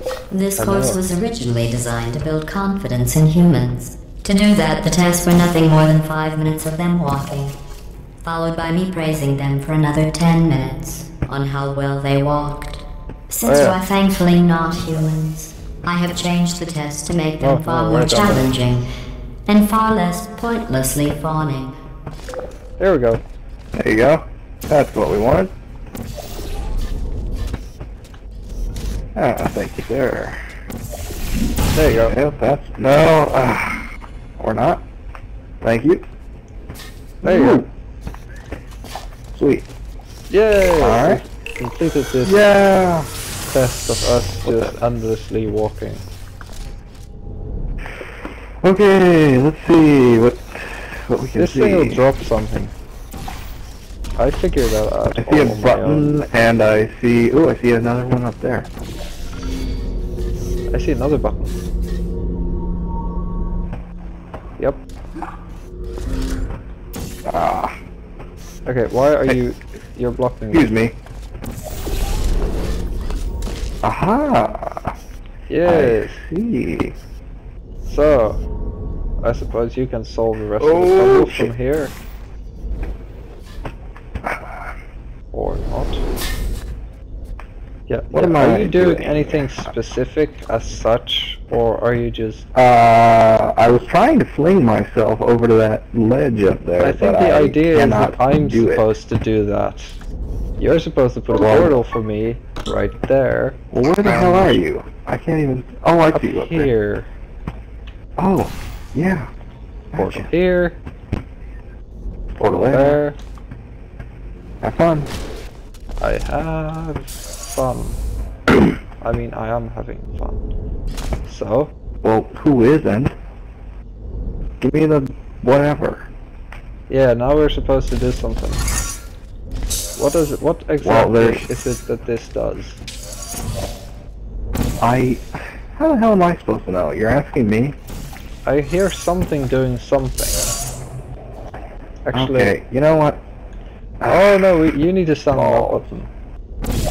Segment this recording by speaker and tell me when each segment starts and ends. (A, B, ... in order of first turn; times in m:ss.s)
0:00.3-0:07.6 A
0:00.6-0:01.0 B
0:08.2-0:18.9 A
0:13.4-0:13.8 B
0:17.4-0:18.5 B
0:19.5-0:21.8 A
0:22.8-0:23.2 B
0:23.7-0:25.5 C
0:29.2-0:30.4 C
0:31.7-0:32.2 B
0:32.0-0:33.9 C
0:34.4-0:34.8 C
0:35.6-0:36.0 C
0:37.2-0:37.7 C
0:37.2-0:37.7 B
0:39.3-0:39.7 C
0:40.3-0:42.4 B
0:40.8-0:41.2 C
0:42.2-0:43.1 C
0:43.5-0:46.0 B
0:44.4-0:44.7 C
0:48.6-0:52.0 C
0:51.4-0:52.7 B
0:54.2-0:56.1 B
0:55.2-0:58.7 C
1:00.7-1:01.5 B
1:07.3-1:07.7 C
1:08.6-1:10.7 B
1:10.5-1:10.9 C
1:13.8-1:14.9 C
1:15.5-1:16.2 B
1:15.6-1:17.0 C
1:17.8-1:18.4 B
1:19.2-1:22.0 B
1:20.6-1:21.5 C
1:24.2-1:24.6 C
1:25.3-1:26.0 B
1:27.9-1:32.4 B
1:28.1-1:29.7 C
1:32.5-1:38.9 C
1:36.8-1:40.0 B
1:40.6-1:44.6 B
1:41.3-1:41.8 C
1:43.7-1:46.7 C
1:46.1-1:47.1 B
1:48.2-1:49.3 C
1:49.9-1:50.3 C
1:50.0-1:50.8 B
1:52.4-1:53.0 C
1:52.4-1:53.2 B
1:54.6-1:55.1 C
1:56.0-1:58.0 B
1:59.0-2:00.4 B
2:01.2-2:01.7 B
2:02.0-2:03.1 C
2:04.6-2:06.1 C
2:06.9-2:08.6 B
2:10.0-2:12.8 B
2:10.8-2:11.5 C
2:14.8-2:17.8 C
2:18.4-2:20.4 B
2:22.1-2:22.6 B
2:22.1-2:23.2 C
2:24.0-2:24.6 C
2:24.0-2:26.1 B
2:25.3-2:26.0 C